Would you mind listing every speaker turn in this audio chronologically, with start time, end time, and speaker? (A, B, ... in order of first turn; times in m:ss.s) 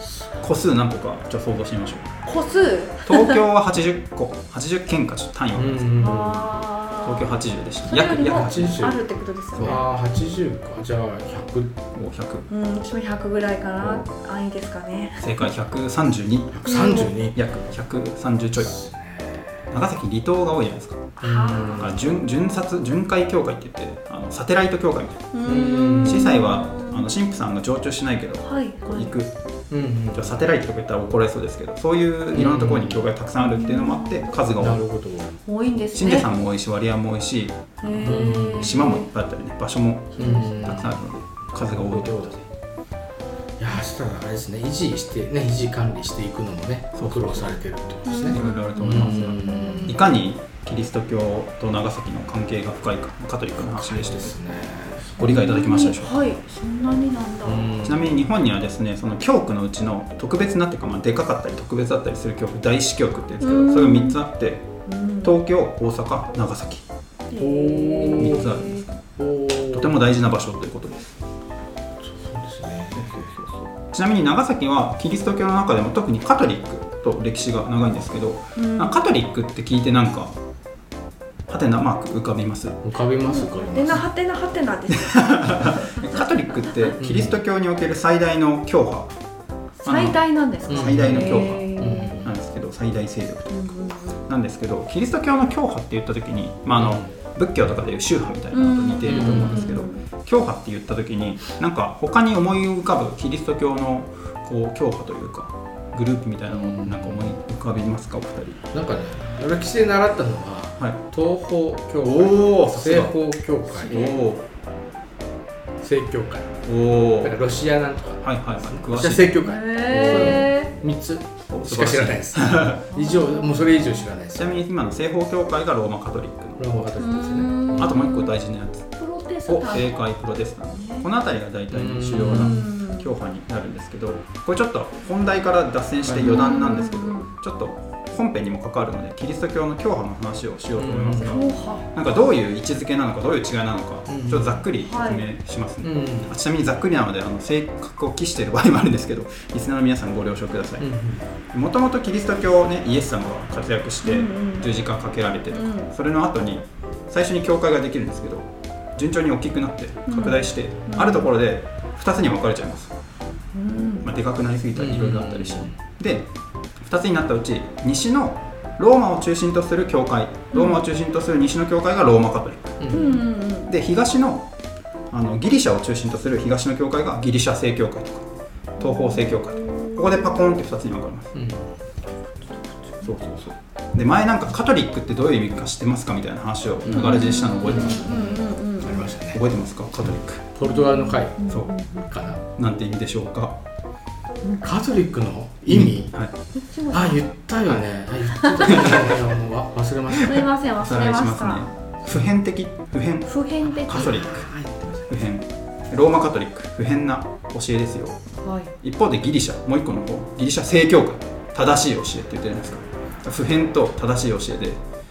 0:00.4-0:02.1 A
0:02.2-0:03.4 B
0:03.0-0:06.0 A
0:05.5-0:06.6 C
0:06.0-0:09.8 B
0:07.0-0:08.9 A
0:08.2-0:09.0 C
0:09.5-0:09.8 A
0:09.6-0:11.8 C
0:11.9-0:12.4 A
0:12.5-0:15.5 B
0:15.2-0:18.7 A
0:16.5-0:17.4 C
0:16.7-0:17.1 B
0:18.6-0:19.7 C
0:19.7-0:21.1 A
0:21.2-0:21.9 B
0:21.2-0:22.1 C
0:21.7-0:29.3 A
0:25.3-0:27.1 B
0:25.4-0:26.3 C
0:28.4-0:29.1 B
0:29.7-0:30.5 C
0:30.1-0:34.8 A
0:32.3-0:33.1 C
0:33.4-0:34.3 B
0:34.6-0:35.4 C
0:35.5-0:36.3 B
0:35.9-0:42.4 A
0:37.8-0:39.1 B
0:37.8-0:38.8 C
0:40.2-0:42.3 C
0:40.2-0:40.6 B
0:43.6-0:50.0 C
0:46.9-0:47.6 A
0:48.1-0:50.0 B
0:48.3-0:54.3 A
0:53.6-0:55.2 C
0:55.2-0:56.1 A
0:55.2-0:57.8 B
0:57.4-0:58.2 C
0:57.8-1:04.7 A
1:03.4-1:04.2 B
1:04.9-1:05.3 B
1:05.2-1:06.8 A
1:07.3-1:08.8 B
1:07.4-1:08.5 C
1:08.2-1:09.0 A
1:09.2-1:10.0 C
1:09.6-1:11.2 A
1:12.0-1:13.3 C
1:12.9-1:20.4 A
1:18.6-1:19.0 B
1:21.5-1:22.8 A
1:22.8-1:24.0 C
1:23.2-1:26.3 B
1:24.9-1:29.1 A
1:27.0-1:27.4 C
1:29.8-1:32.2 B
1:29.8-1:31.6 A
1:30.7-1:32.3 C
1:32.2-1:48.6 A
1:33.5-1:34.2 B
1:36.8-1:37.1 C
1:38.5-1:40.0 B
1:39.0-1:39.8 C
1:46.5-1:47.3 C
1:48.7-1:54.0 C
1:52.0-1:53.2 A
1:53.7-1:54.4 A
1:53.9-1:54.2 B
1:55.8-2:04.4 C
1:56.6-1:57.4 A
1:58.2-1:59.3 A
1:59.4-2:00.7 B
1:59.9-2:00.5 A
2:01.5-2:02.8 A
2:02.9-2:04.0 B
2:04.3-2:06.8 A
2:06.6-2:08.0 C
2:07.0-2:08.3 B
2:07.7-2:08.9 A
2:09.0-2:10.1 B
2:09.5-2:30.9 A
2:10.6-2:11.1 B
2:11.7-2:12.7 C
2:12.3-2:13.1 B
2:16.0-2:16.5 C
2:16.2-2:17.3 B
2:20.8-2:21.6 C
2:21.2-2:21.9 B
2:24.1-2:24.7 C
2:24.8-2:25.2 B
2:25.8-2:26.4 C
2:30.8-2:31.2 C
2:31.5-2:42.9 A
2:34.0-2:34.7 B
2:35.5-2:35.9 B
2:40.1-2:41.3 B
2:43.5-2:44.0 B
2:44.0-2:46.3 A
2:44.8-2:45.8 C
2:46.8-2:52.8 A
2:50.5-2:50.8 B
2:52.8-2:53.3 C
2:52.9-2:53.7 B
2:53.7-2:54.5 A
2:55.1-2:58.2 A
2:58.8-3:01.3 A
2:58.8-3:00.1 B
3:01.3-3:01.8 C
3:03.0-3:08.1 A
3:06.9-3:09.1 B
3:06.9-3:09.4 C
3:09.2-3:10.4 A
3:10.0-3:11.4 C
3:10.6-3:12.1 B
3:12.1-3:12.4 C
3:12.5-3:13.6 A
3:14.4-3:14.7 B
3:14.6-3:16.1 C
3:15.7-3:16.3 A
3:16.6-3:17.2 B
3:16.9-3:20.5 C
3:18.4-3:18.8 B
3:18.7-3:19.2 A
3:20.2-3:21.7 B
3:20.4-3:23.3 A
3:23.2-3:24.2 B
3:23.7-3:25.1 C
3:23.8-3:24.5 A
3:25.1-3:28.2 A
3:28.4-3:28.7 B
3:28.8-3:34.8 A